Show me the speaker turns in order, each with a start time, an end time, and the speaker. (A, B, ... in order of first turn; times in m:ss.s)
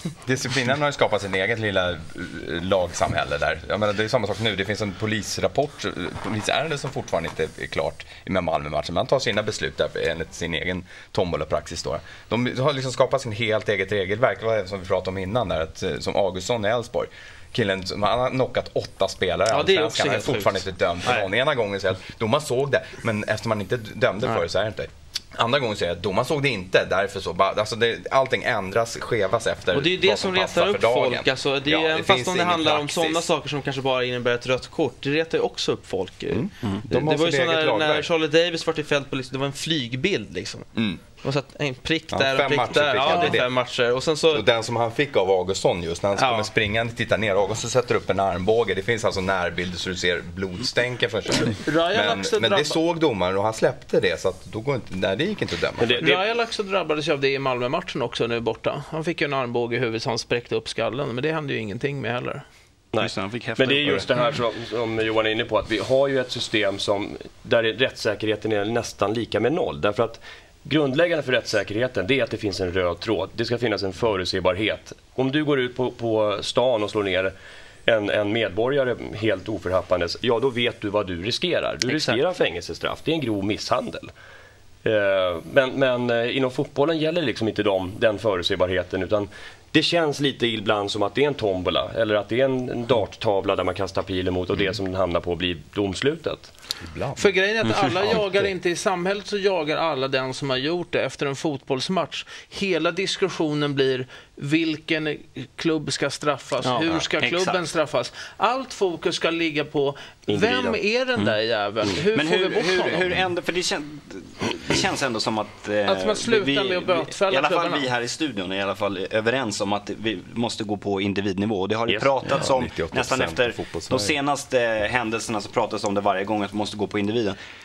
0:00.2-0:33.3 A
0:19.5-0:21.2 B
0:29.7-0:44.4 B
0:36.3-0:38.1 A
0:40.7-0:41.0 A
0:42.1-0:43.5 A
0:43.0-0:43.2 C
0:44.3-0:56.0 A
0:51.4-0:52.8 C
0:55.8-0:56.2 D
0:56.0-1:02.4 C
1:02.9-1:17.3 D
1:03.0-1:04.1 E
1:17.8-1:24.1 D
1:21.9-1:22.2 B
1:24.8-1:36.5 D
1:36.8-1:38.5 A
1:37.2-1:53.1 C
1:46.6-1:46.9 B
1:47.1-1:47.6 E
1:50.3-1:50.8 D
1:52.1-2:07.4 E
1:55.8-1:57.9 C
2:02.2-2:04.1 A